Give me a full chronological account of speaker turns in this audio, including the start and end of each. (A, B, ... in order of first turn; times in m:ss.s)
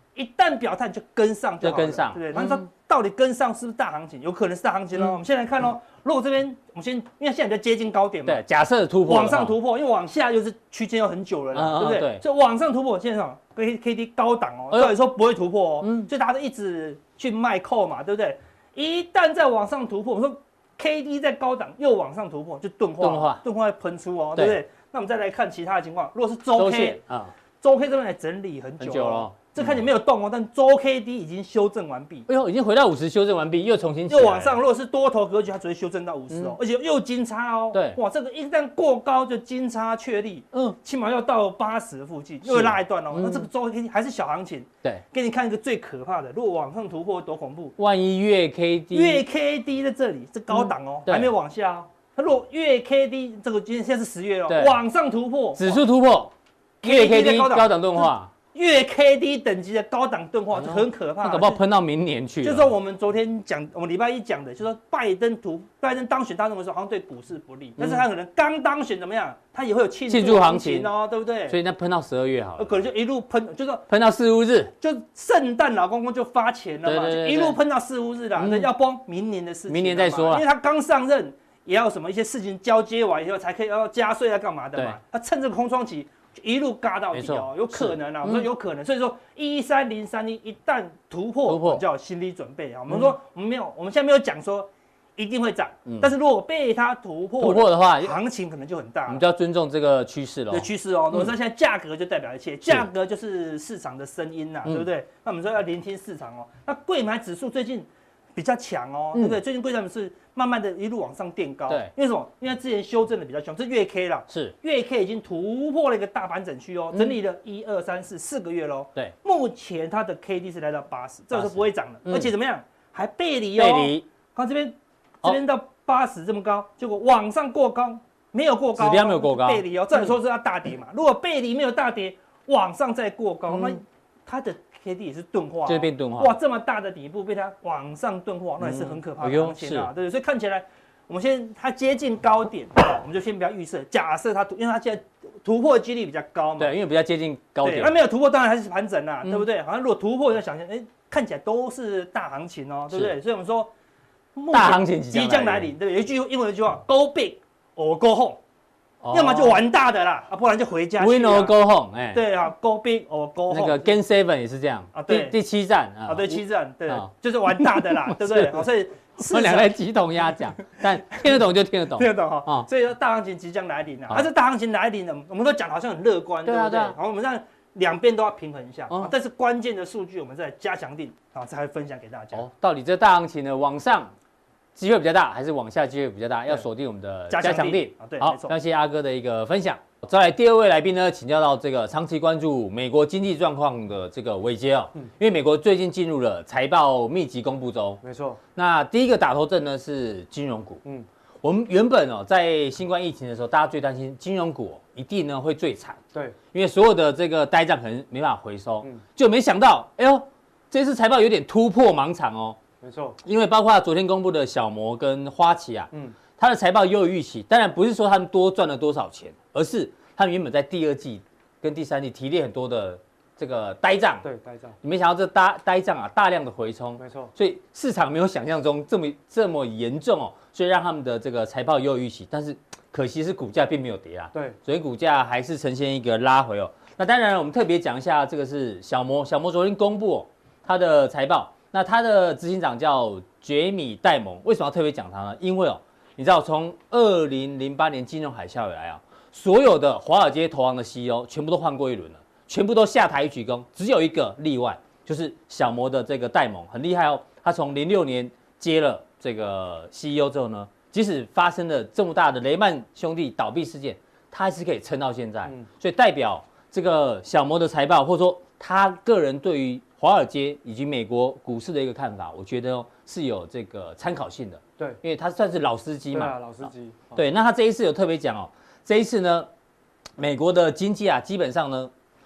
0:00.1-0:08.4 A
0:01.6-0:02.6 B
0:08.2-0:09.5 B
0:09.0-0:27.0 A
0:11.5-0:12.2 B
0:15.8-0:16.1 B
0:23.0-0:23.4 B
0:24.4-0:24.6 B
0:26.6-0:27.3 B
0:27.6-0:32.2 A
0:28.8-0:29.8 B
0:32.3-0:34.6 B
0:34.1-0:47.8 A
0:37.7-0:38.0 B
0:42.4-0:43.5 B
0:47.8-0:49.2 B
0:48.9-0:55.8 A
0:50.5-0:51.3 B
0:54.5-0:54.8 B
0:55.6-0:58.3 B
0:56.8-1:01.6 A
1:00.6-1:02.7 B
1:02.4-1:11.6 A
1:07.8-1:08.0 B
1:10.1-1:10.9 B
1:11.5-1:12.8 B
1:12.6-1:13.8 A
1:13.9-1:14.7 B
1:14.8-1:39.2 A
1:16.8-1:17.6 B
1:18.4-1:18.7 B
1:19.7-1:20.4 B
1:27.1-1:28.5 B
1:31.5-1:31.8 B
1:35.8-1:36.1 B
1:37.4-1:38.2 B
1:39.1-1:41.3 B
1:40.5-2:26.7 A
1:54.3-1:54.5 B
2:01.3-2:02.3 B
2:03.6-2:04.0 B
2:08.8-2:09.6 B
2:13.5-2:13.8 B
2:15.6-2:16.3 B
2:18.6-2:19.9 B
2:26.6-2:27.9 B
2:27.6-2:33.7 A
2:34.3-2:38.4 A
2:34.5-2:35.7 B
2:39.0-2:39.6 B
2:39.1-2:41.5 A
2:41.0-2:42.2 B
2:42.1-2:43.9 A
2:43.5-2:48.6 B
2:44.9-2:45.4 A
2:46.1-2:49.8 A
2:49.2-2:52.7 B
2:51.1-2:51.4 A
2:52.0-3:02.4 A
2:56.4-2:57.0 B
3:02.3-3:04.1 B
3:04.8-3:18.0 B
3:07.3-3:08.5 A
3:18.0-3:18.4 C
3:18.6-3:20.8 B
3:21.4-3:26.0 B
3:26.5-3:32.6 B
3:32.8-3:33.2 C
3:33.2-3:44.2 B
3:44.2-3:44.7 C
3:44.8-4:39.5 B
3:47.0-3:47.3 C
4:36.1-4:37.2 C
4:40.2-4:41.9 B